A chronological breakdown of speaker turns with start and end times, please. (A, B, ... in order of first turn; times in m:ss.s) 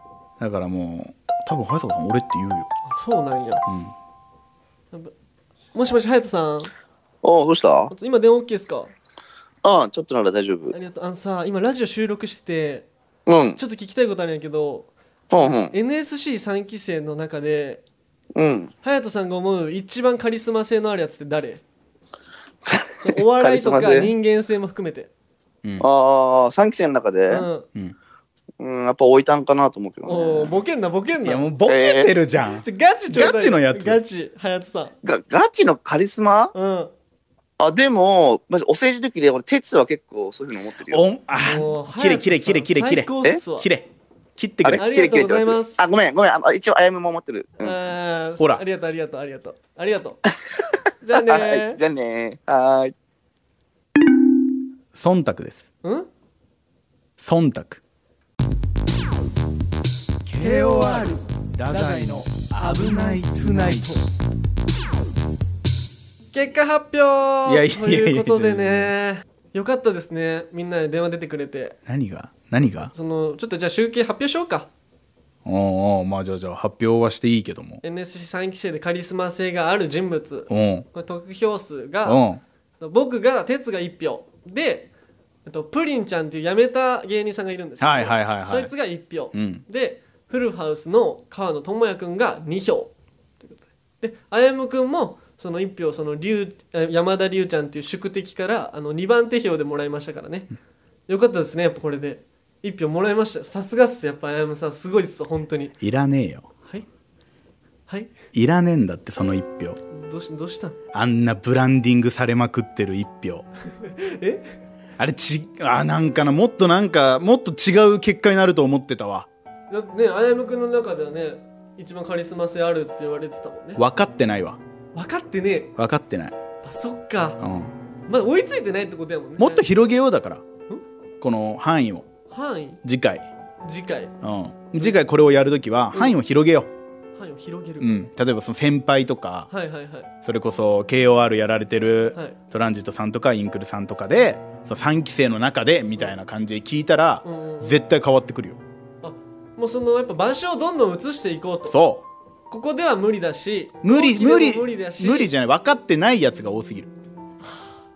0:00.4-0:02.7 A
0:02.9-0:03.6 B
0:03.7-0:03.9 A
0:05.7-0:06.7 B
0:07.2-0:07.9 C
0:07.9-0:08.9 B
0:09.6-0:10.7 C
0:10.7-0:12.9 B
0:13.3-0:13.6 C
0:13.6-0:17.8 B
0:15.3-0:15.7 C
0:18.4-0:18.7 C
0:18.8-0:21.6 B
0:22.7-0:24.1 C
0:23.0-0:25.1 B
0:25.8-0:27.5 C
0:27.3-0:27.7 B
0:28.6-0:30.6 C
0:30.0-0:31.4 B
0:31.2-0:34.0 A
0:31.7-0:32.1 C
0:32.6-0:35.0 B
0:35.0-0:36.5 C
0:36.5-0:36.9 B
0:37.6-0:41.0 C
0:40.9-0:44.8 A
0:41.4-0:43.7 B
0:44.6-0:47.8 C
0:44.7-0:45.8 B
0:47.6-0:50.2 B
0:51.0-0:51.8 B
0:51.2-0:52.9 C
0:54.9-0:55.7 A
0:55.8-0:56.1 B
0:57.2-0:57.8 A
1:00.2-1:04.0 A
1:00.4-1:04.0 B
1:06.3-1:11.8 B
1:07.5-1:08.9 A
1:11.9-1:12.9 A
1:13.0-1:14.7 B
1:15.4-1:17.8 A
1:17.8-1:22.2 B
1:20.5-1:20.9 A
1:22.0-1:22.4 A
1:22.8-1:24.9 B
1:25.5-1:40.5 B
1:27.8-1:28.7 A
1:29.3-1:29.6 A
1:41.1-1:45.8 B
1:45.8-1:46.5 A
1:48.3-1:49.8 A
1:49.9-1:50.8 B
1:50.9-1:53.4 A
1:53.8-1:54.5 B
1:55.0-1:59.3 A
1:59.7-2:03.8 B
2:03.8-2:04.6 A
2:04.9-2:05.7 B
2:05.8-2:06.4 A
2:06.6-2:07.4 B
2:07.4-2:07.7 A
2:08.1-2:09.7 B
2:09.4-2:10.4 A
2:11.2-2:12.1 A
2:12.3-2:12.8 B
2:12.8-2:13.2 A
2:13.6-2:14.1 B
2:14.2-2:16.7 A
2:17.2-2:18.0 B
2:17.8-2:19.5 A
2:19.5-2:20.1 B
2:20.2-2:28.6 A
2:27.2-2:27.8 B
2:29.0-2:31.8 B
2:31.7-2:32.0 A
2:32.5-2:35.3 B
2:33.8-2:36.9 A